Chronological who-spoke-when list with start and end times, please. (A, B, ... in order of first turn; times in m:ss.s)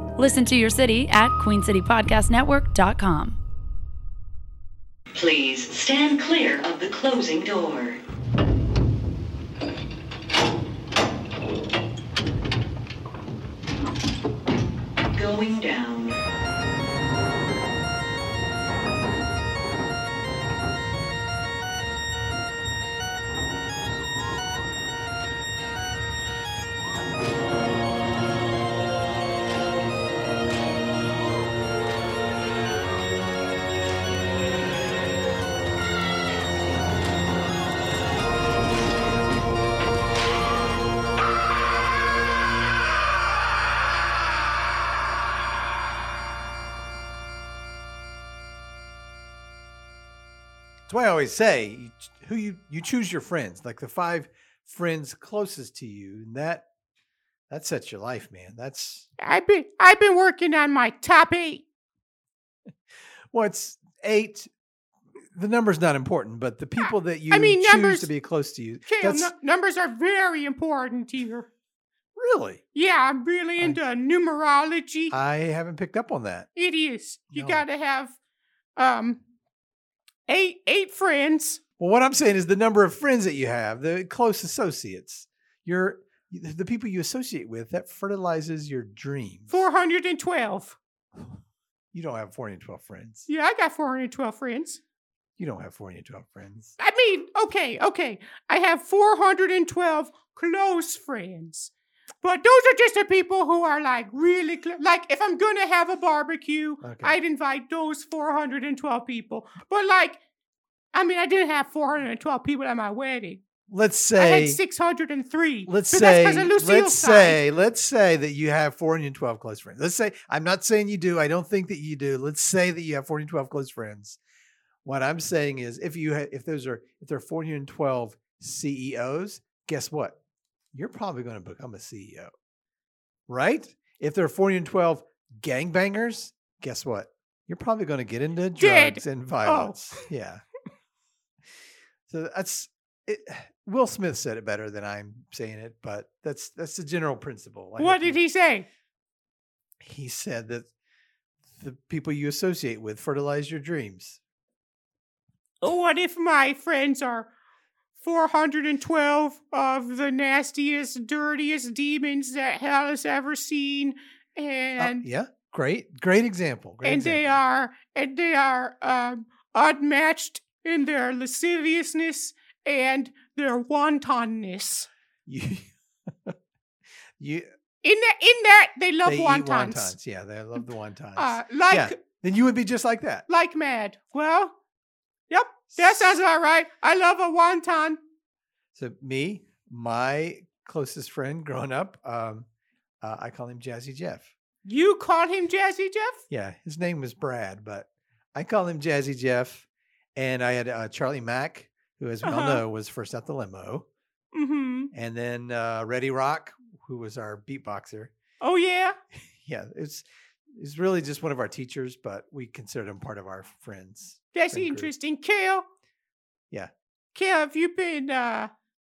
0:00.2-0:03.4 A
0:05.1-0:08.0 B
0:15.1-0:16.2 B
0:50.9-0:56.6 C
0:57.5-0:59.1 C
0:59.2-1:01.6 D
1:03.3-1:04.5 C
1:05.2-1:09.3 C
1:06.8-1:08.1 D
1:08.9-1:11.5 D
1:12.2-1:12.6 C
1:12.7-1:15.1 D
1:15.1-1:16.5 C
1:16.6-1:18.2 D
1:17.3-1:17.6 C
1:18.8-1:19.2 D
1:20.3-1:21.6 D
1:21.8-1:29.6 C
1:29.5-1:30.8 D
1:31.9-1:33.3 C
1:33.3-1:34.8 D
1:35.4-1:36.7 C
1:36.8-1:50.2 D
1:46.8-1:47.2 C
1:50.9-1:53.4 D
1:53.7-1:54.6 C
1:54.2-1:57.4 D
1:55.6-2:04.2 C
2:04.8-2:10.2 C
2:10.7-2:12.3 C
2:13.3-2:20.4 C
2:18.6-2:20.1 D
2:22.1-2:28.2 C
2:27.8-2:28.7 D
2:29.8-2:30.7 C
2:31.5-2:34.2 C
2:35.6-2:37.3 D
2:38.0-2:45.1 D
2:44.8-2:47.4 C
2:46.8-2:54.9 D
2:55.2-2:56.4 C
2:57.2-2:57.5 C
2:57.8-2:59.9 D
2:59.0-3:03.3 C
3:01.2-3:02.0 D
3:03.3-3:04.5 D
3:05.3-3:08.0 D
3:05.7-3:06.2 C
3:08.7-3:12.5 C
3:13.0-3:14.3 C
3:14.6-3:16.2 D
3:16.3-3:23.9 C
3:22.2-3:22.6 D
3:24.3-3:24.9 D
3:24.9-3:28.1 C
3:28.4-3:29.0 D
3:29.4-3:34.9 C
3:34.3-3:35.6 D
3:37.1-3:38.5 D